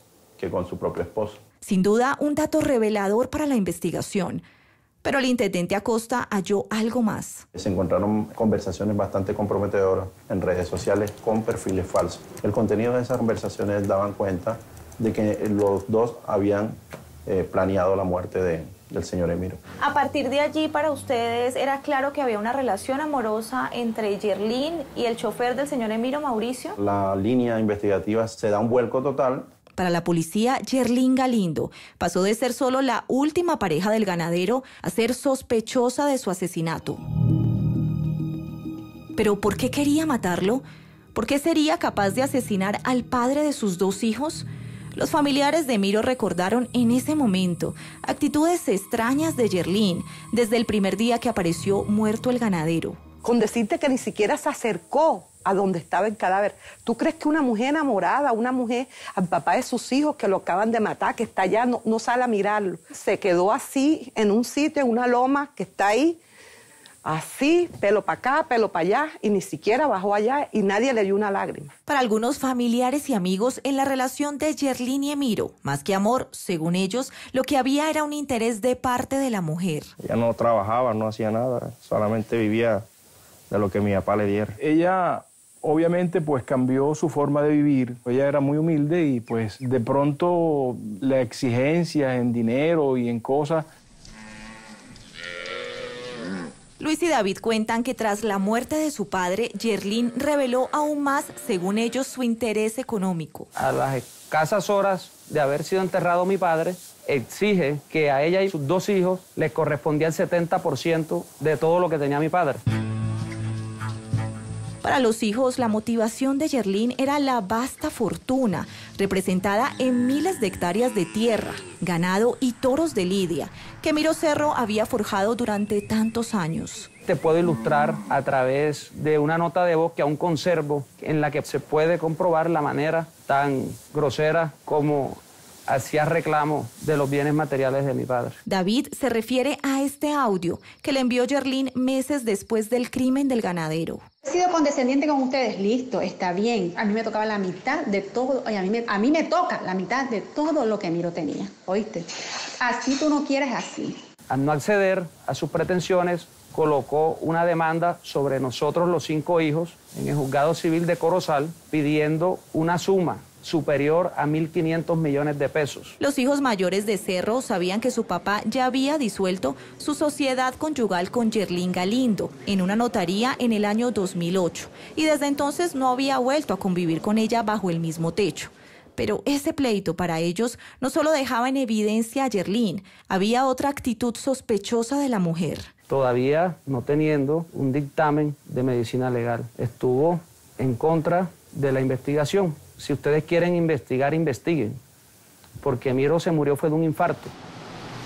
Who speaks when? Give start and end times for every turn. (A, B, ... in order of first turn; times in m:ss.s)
0:00.4-0:01.4 A
0:01.6-0:04.4 B
0:05.0-0:07.5 B
0:07.6-0:19.6 A
0:19.8-0:26.8 C
0:26.8-0:29.5 A
0:29.8-0:37.0 B
0:39.2-0:53.0 B
0:53.2-1:06.2 D
1:07.0-1:11.7 D
1:11.9-1:19.9 B
1:20.0-1:22.8 E
1:23.5-1:24.6 E
1:24.6-1:33.7 F
1:36.8-1:43.5 B
1:43.6-1:52.6 G
1:54.8-2:06.9 B
2:07.1-2:18.4 G
2:18.5-2:24.0 B
2:24.2-2:32.1 H
2:32.6-2:34.0 H
2:34.3-2:46.0 G
2:46.0-3:05.7 B
3:05.9-3:14.8 G
3:15.6-3:17.3 G